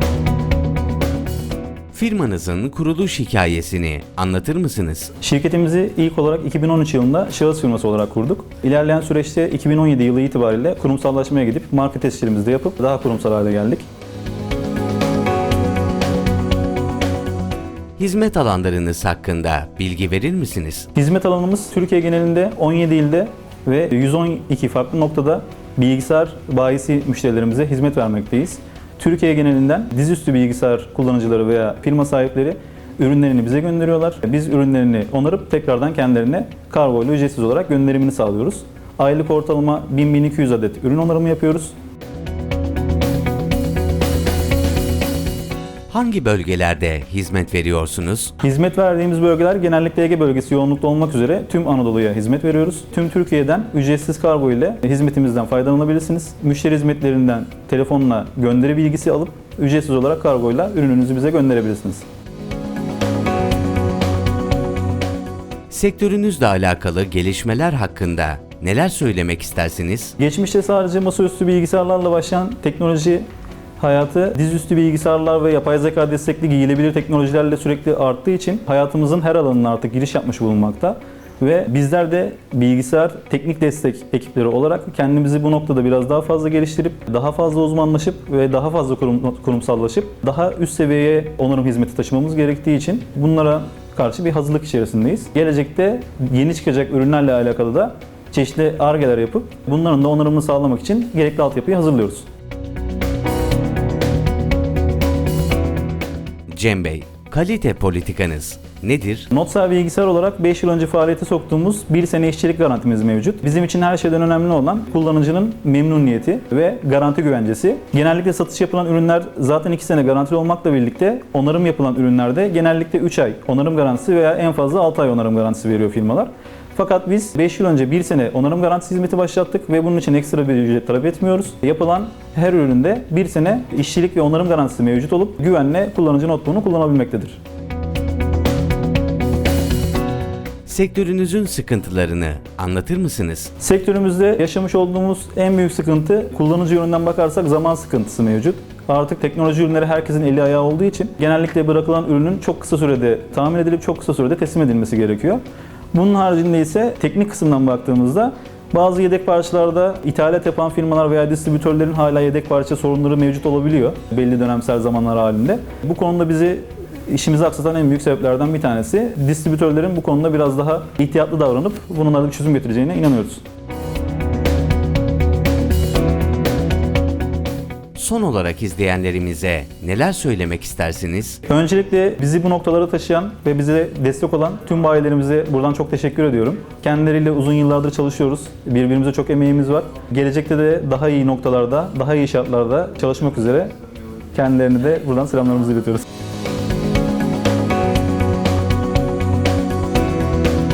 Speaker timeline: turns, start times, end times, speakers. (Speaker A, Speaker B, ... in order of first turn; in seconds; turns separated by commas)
Speaker A: 1.9-5.1, Speaker B: 5.2-13.8, Speaker A: 18.0-20.9, Speaker B: 20.9-41.7, Speaker A: 45.9-48.3, Speaker B: 48.4-62.0, Speaker A: 65.7-70.1, Speaker B: 70.2-73.2, Speaker B: 73.8-102.3, Speaker A: 106.5-109.3, Speaker B: 109.3-137.4, Speaker A: 140.7-143.5, Speaker B: 143.6-155.4, Speaker B: 155.9-173.4, Speaker A: 177.9-181.4, Speaker B: 181.5-193.7, Speaker B: 194.3-196.1